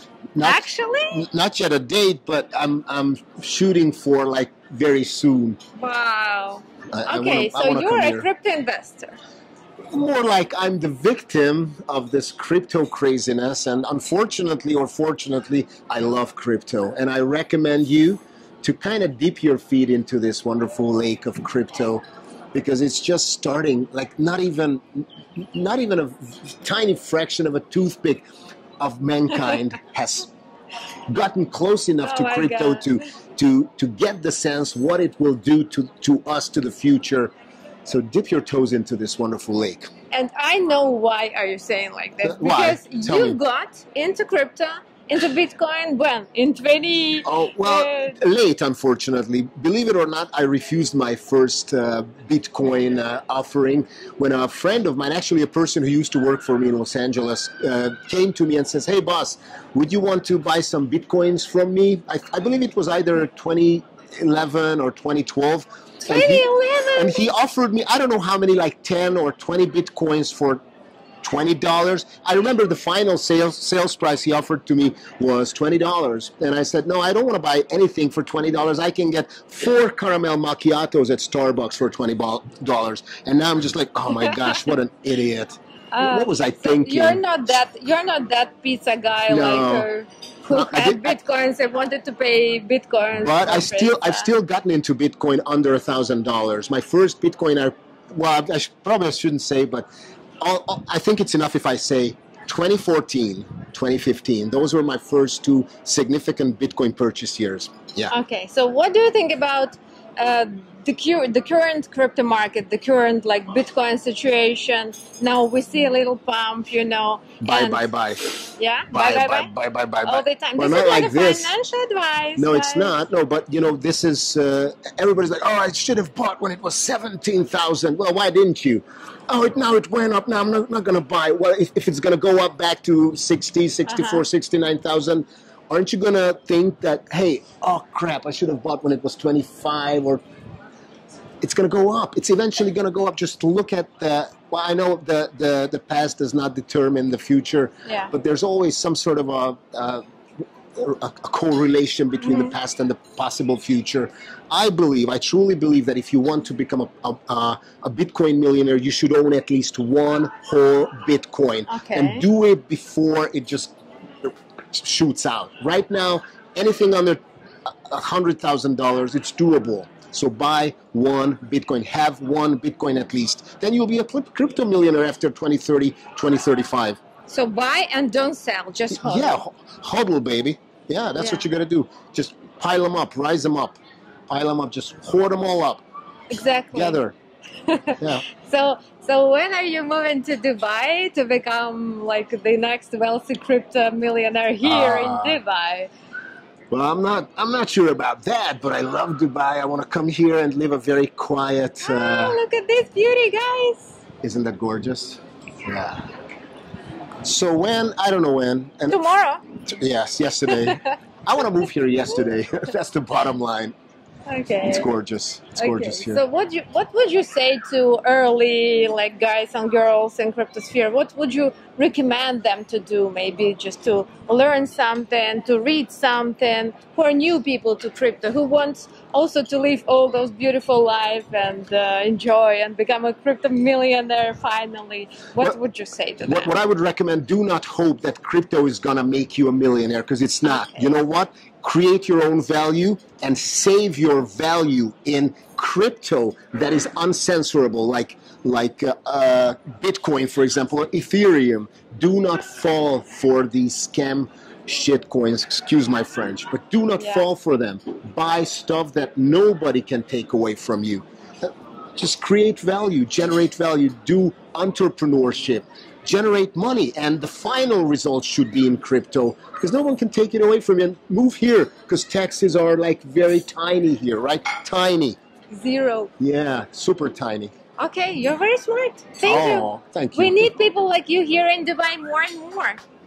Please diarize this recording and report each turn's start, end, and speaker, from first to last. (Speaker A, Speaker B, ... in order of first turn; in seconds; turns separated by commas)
Speaker A: 0.3-5.6, Speaker B: 0.4-1.3, Speaker B: 5.8-9.2, Speaker A: 6.9-8.3, Speaker A: 9.9-22.0, Speaker A: 22.5-28.2, Speaker A: 28.8-30.3, Speaker A: 31.1-37.3, Speaker B: 32.0-33.0, Speaker A: 37.9-39.9, Speaker B: 40.1-48.2, Speaker A: 42.2-43.4, Speaker A: 47.2-70.6, Speaker B: 66.0-67.3, Speaker A: 71.2-87.5, Speaker B: 84.2-84.4, Speaker B: 85.9-94.3, Speaker A: 89.3-89.9, Speaker A: 90.5-91.2, Speaker A: 93.2-99.9, Speaker A: 100.4-108.1, Speaker B: 108.1-117.9, Speaker A: 117.4-121.5, Speaker B: 118.6-119.5, Speaker B: 120.0-123.0, Speaker A: 122.4-140.2, Speaker B: 133.9-134.2, Speaker A: 141.4-150.0, Speaker B: 147.9-148.1, Speaker A: 150.8-177.0, Speaker B: 152.2-152.5, Speaker B: 161.7-162.3, Speaker B: 177.3-179.4, Speaker A: 178.9-183.8, Speaker B: 181.2-181.4, Speaker A: 184.3-185.8, Speaker B: 186.3-187.0, Speaker A: 186.7-187.2, Speaker B: 187.7-195.9, Speaker A: 188.0-188.2, Speaker A: 194.6-195.4, Speaker A: 196.7-202.4, Speaker B: 201.8-204.0, Speaker A: 204.2-206.1, Speaker A: 207.2-209.1, Speaker B: 208.9-209.4, Speaker A: 209.6-213.8, Speaker B: 210.5-210.9, Speaker B: 214.3-214.9, Speaker A: 214.6-216.2, Speaker B: 215.6-236.6, Speaker A: 236.2-275.2, Speaker B: 240.4-240.9, Speaker B: 257.0-257.3, Speaker B: 275.5-276.1, Speaker A: 276.2-277.5, Speaker B: 277.8-282.8, Speaker A: 279.2-280.5